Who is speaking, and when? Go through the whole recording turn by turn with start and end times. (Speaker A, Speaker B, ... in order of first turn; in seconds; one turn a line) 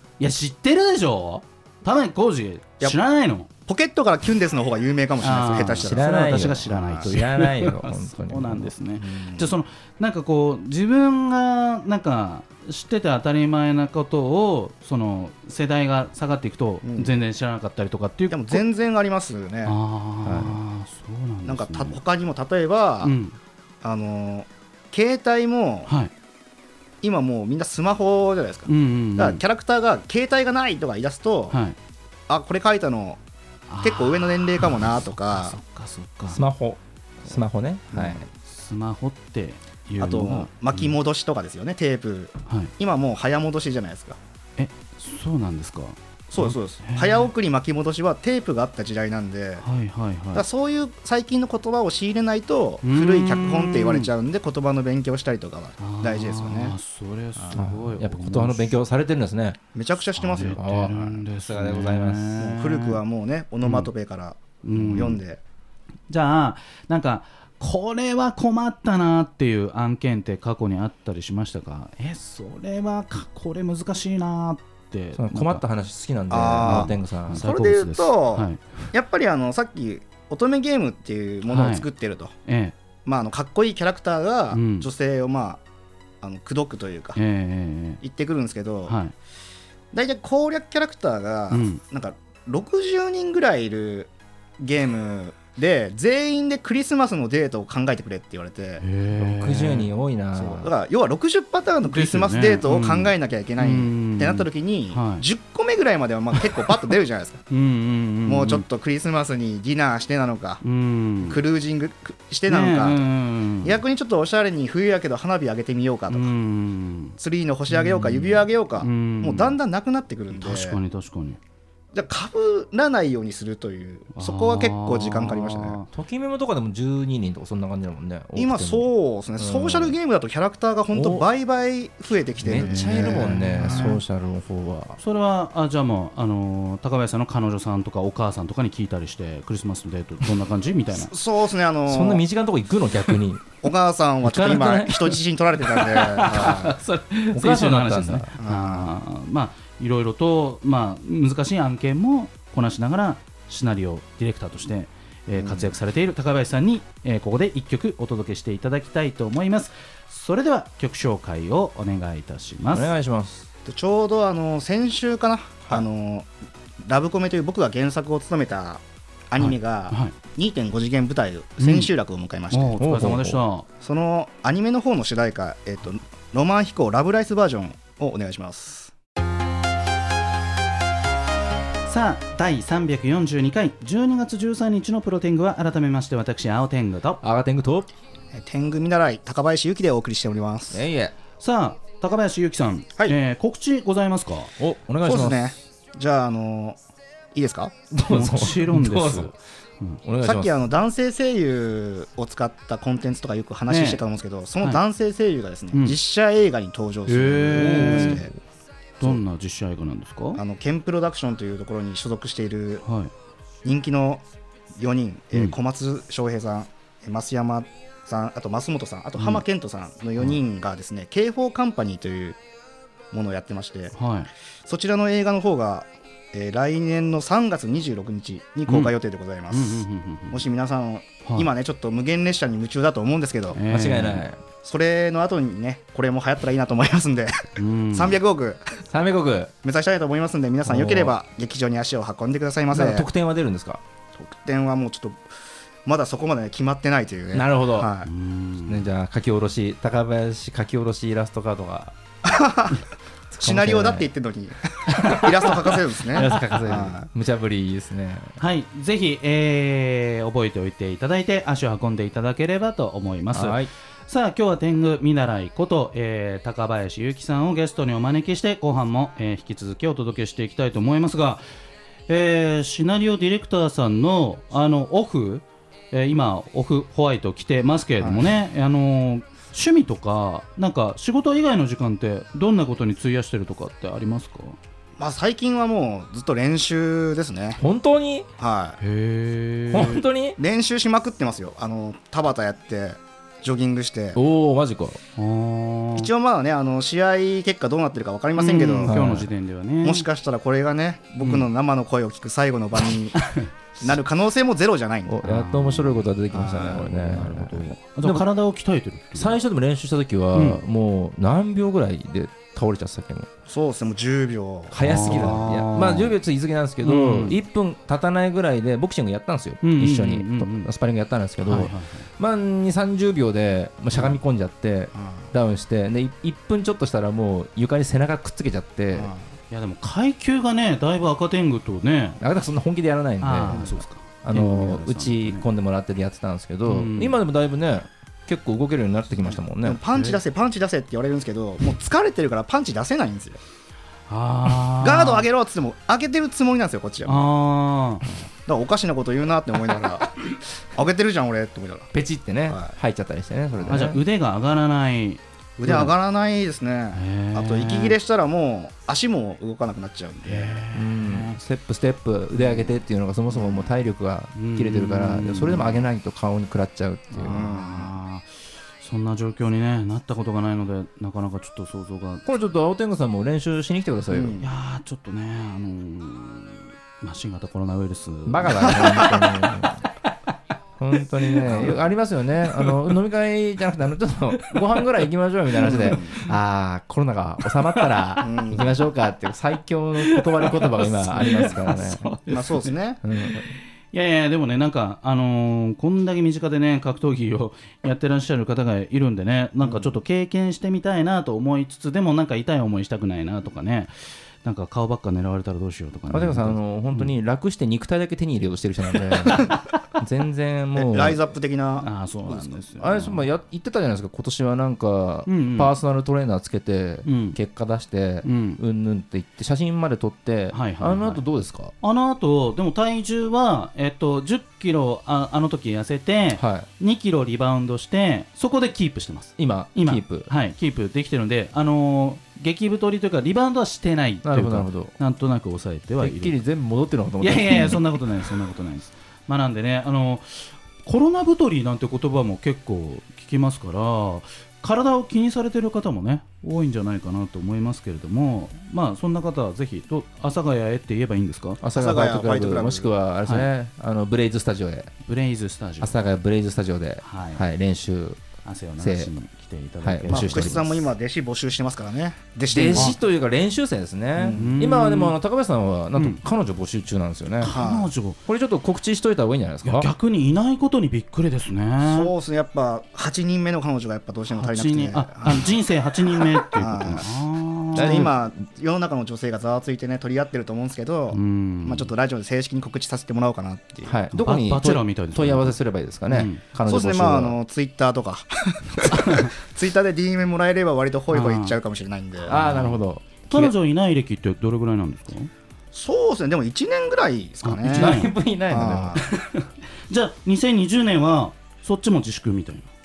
Speaker A: 0.2-3.5
Speaker B: 3.7-7.1
Speaker A: 5.2-18.6
Speaker C: 5.8-8.7
Speaker B: 9.0-9.6
Speaker B: 16.8-17.1
Speaker B: 18.3-19.8
Speaker A: 19.6-22.0
Speaker C: 20.2-20.6
Speaker B: 21.4-23.1
Speaker A: 23.0-23.4
Speaker B: 23.8-25.9
Speaker A: 25.9-26.1
Speaker B: 27.0-31.6
Speaker A: 28.7-29.4
Speaker A: 31.5-31.8
Speaker B: 32.3-33.2
Speaker A: 33.7-36.4
Speaker B: 33.8-35.6
Speaker C: 36.3-38.2
Speaker B: 37.9-38.2
Speaker A: 38.4-40.9
Speaker B: 40.0-44.2
Speaker A: 44.6-47.3
Speaker B: 46.3-49.6
Speaker A: 49.6-50.5
Speaker B: 50.3-56.8
Speaker A: 52.8-54.1
Speaker A: 55.8-58.7
Speaker C: 57.5-59.6
Speaker B: 59.7-60.6
Speaker A: 60.2-63.0
Speaker C: 60.5-62.3
Speaker B: 62.4-65.4
Speaker A: 63.6-63.9
Speaker A: 64.6-65.2
Speaker A: 66.1-75.6
Speaker C: 75.2-77.4
Speaker B: 76.3-82.3
Speaker A: 76.6-78.7
Speaker A: 81.5-81.9
Speaker A: 82.5-82.8
Speaker B: 83.0-85.6
Speaker A: 84.5-84.9
Speaker B: 86.2-87.2
Speaker A: 87.2-88.0
Speaker B: 88.0-89.0
Speaker A: 88.9-89.1
Speaker B: 89.9-98.8
Speaker A: 91.5-91.8
Speaker A: 98.8-99.9
Speaker C: 99.2-100.7
Speaker B: 100.3-107.4
Speaker A: 101.9-105.2
Speaker A: 107.5-108.7
Speaker B: 108.3-110.6
Speaker A: 110.6-111.4
Speaker B: 111.2-113.1
Speaker A: 112.5-113.8
Speaker B: 113.6-116.3
Speaker A: 116.1-117.2
Speaker B: 117.2-120.8
Speaker A: 117.7-119.6
Speaker A: 120.4-121.4
Speaker B: 121.9-125.8
Speaker A: 124.2-125.9
Speaker C: 125.9-130.0
Speaker B: 128.4-133.9
Speaker C: 130.9-131.3
Speaker C: 132.4-135.0
Speaker A: 132.5-134.0
Speaker A: 135.0-141.1
Speaker B: 140.9-142.2
Speaker C: 141.9-143.5
Speaker B: 143.6-146.8
Speaker C: 144.2-145.2
Speaker A: 145.8-162.9
Speaker C: 147.3-148.3
Speaker B: 148.4-148.9
Speaker B: 155.3-155.8
Speaker C: 162.7-163.5
Speaker B: 163.7-166.3
Speaker B: 166.8-172.8
Speaker A: 169.4-170.2
Speaker A: 171.6-171.9
Speaker A: 172.5-173.7
Speaker C: 172.8-173.4
Speaker B: 173.8-178.9
Speaker A: 181.8-187.2
Speaker C: 187.2-187.9
Speaker B: 188.3-190.9
Speaker C: 190.7-191.2
Speaker A: 191.4-194.5
Speaker C: 194.6-195.5
Speaker B: 195.0-196.8
Speaker B: 197.3-197.8
Speaker C: 197.9-199.3
Speaker A: 198.1-200.0
Speaker C: 200.0-200.6
Speaker B: 200.2-208.3
Speaker A: 203.7-204.0
Speaker A: 207.1-208.2
Speaker A: 209.0-210.4
Speaker B: 210.4-212.8
Speaker A: 212.8-213.1
Speaker B: 213.6-214.2
Speaker B: 214.8-222.4
Speaker A: 219.2-219.4
Speaker B: 223.1-223.9
Speaker A: 223.9-224.3
Speaker B: 224.7-233.6
Speaker A: 228.7-228.9
Speaker A: 229.5-230.4
Speaker A: 233.5-234.2
Speaker C: 233.7-234.4
Speaker B: 234.6-238.8
Speaker A: 237.6-238.2
Speaker C: 238.9-239.5
Speaker B: 239.6-243.1
Speaker C: 240.7-241.2
Speaker C: 242.7-243.8
Speaker B: 244.2-245.2
Speaker B: 245.9-248.1
Speaker C: 247.3-247.9
Speaker A: 248.1-248.8
Speaker C: 248.7-251.9
Speaker B: 252.2-257.1
Speaker C: 253.4-254.1
Speaker C: 254.9-255.6
Speaker C: 256.1-258.4
Speaker A: 258.4-271.4
Speaker C: 263.3-263.7
Speaker A: 272.1-284.6
Speaker B: 278.0-278.3
Speaker B: 285.0-287.6
Speaker C: 287.6-288.3
Speaker B: 288.4-288.8
Speaker A: 288.8-290.0
Speaker C: 289.7-290.4
Speaker B: 290.4-294.2
Speaker C: 294.1-295.0
Speaker A: 295.2-296.1
Speaker B: 296.0-299.0
Speaker A: 298.4-300.1
Speaker C: 298.9-299.3
Speaker B: 299.8-303.3
Speaker A: 301.2-301.5
Speaker A: 303.1-303.5
Speaker B: 303.8-305.2
Speaker C: 305.1-308.3
Speaker A: 305.2-306.1
Speaker B: 306.3-306.9
Speaker A: 306.8-309.4
Speaker C: 309.1-313.3
Speaker A: 310.3-310.6
Speaker B: 313.5-315.5
Speaker C: 314.7-329.1
Speaker A: 314.8-316.2
Speaker A: 316.8-317.4
Speaker A: 319.6-320.7
Speaker A: 321.4-322.1
Speaker B: 324.9-325.3
Speaker B: 328.9-329.2
Speaker A: 329.5-332.2
Speaker C: 332.2-339.8
Speaker A: 333.2-335.5
Speaker A: 336.7-337.2
Speaker B: 339.3-343.4
Speaker A: 339.9-340.2
Speaker A: 344.1-345.3
Speaker B: 344.8-347.3
Speaker A: 347.1-348.1
Speaker B: 348.4-351.9
Speaker C: 351.9-354.0
Speaker B: 352.5-352.8
Speaker A: 353.7-355.9
Speaker B: 355.6-360.6
Speaker A: 356.9-358.0
Speaker A: 360.2-361.4
Speaker C: 360.7-367.4
Speaker B: 363.3-363.7
Speaker A: 364.4-365.8
Speaker A: 367.1-368.3
Speaker B: 367.2-367.9
Speaker A: 368.8-372.2
Speaker C: 372.2-374.4
Speaker B: 374.1-374.4
Speaker A: 374.4-379.2
Speaker C: 378.3-379.8
Speaker B: 378.7-379.1
Speaker C: 380.8-392.1
Speaker B: 381.4-381.9
Speaker A: 385.6-386.0
Speaker B: 385.6-386.2
Speaker B: 388.2-388.8
Speaker A: 390.0-392.7
Speaker B: 392.3-393.0
Speaker C: 393.0-393.5
Speaker A: 393.2-407.1
Speaker B: 399.6-400.0
Speaker C: 406.1-411.2
Speaker B: 410.8-412.5
Speaker A: 411.8-413.2
Speaker C: 412.8-421.7
Speaker A: 415.3-415.7
Speaker A: 417.1-417.4
Speaker A: 418.2-418.6
Speaker A: 420.5-421.2
Speaker A: 421.8-436.4
Speaker C: 426.4-426.7
Speaker C: 429.4-430.3
Speaker C: 434.2-434.9
Speaker C: 436.0-437.9
Speaker A: 437.2-451.6
Speaker C: 451.6-454.9
Speaker B: 451.8-452.9
Speaker A: 455.1-456.0
Speaker C: 455.8-458.2
Speaker A: 457.0-457.4
Speaker A: 458.4-460.8
Speaker C: 458.8-459.1
Speaker C: 459.8-460.8
Speaker B: 460.1-463.0
Speaker C: 462.5-467.5
Speaker B: 464.2-464.5
Speaker A: 464.3-465.2
Speaker A: 465.9-466.2
Speaker A: 467.4-468.2
Speaker B: 467.5-467.9
Speaker C: 468.3-469.9
Speaker A: 469.6-472.1
Speaker B: 471.8-475.6
Speaker A: 474.3-478.1
Speaker B: 476.2-477.1
Speaker C: 477.8-478.1
Speaker B: 477.8-484.0
Speaker A: 481.1-481.9
Speaker C: 483.9-487.4
Speaker A: 484.1-485.6
Speaker A: 486.1-486.4
Speaker B: 486.6-492.4
Speaker A: 488.9-489.3
Speaker A: 491.1-491.6
Speaker C: 492.3-493.5
Speaker A: 492.3-495.3
Speaker B: 495.7-499.1
Speaker A: 497.4-498.1
Speaker C: 497.7-499.0
Speaker A: 499.0-502.7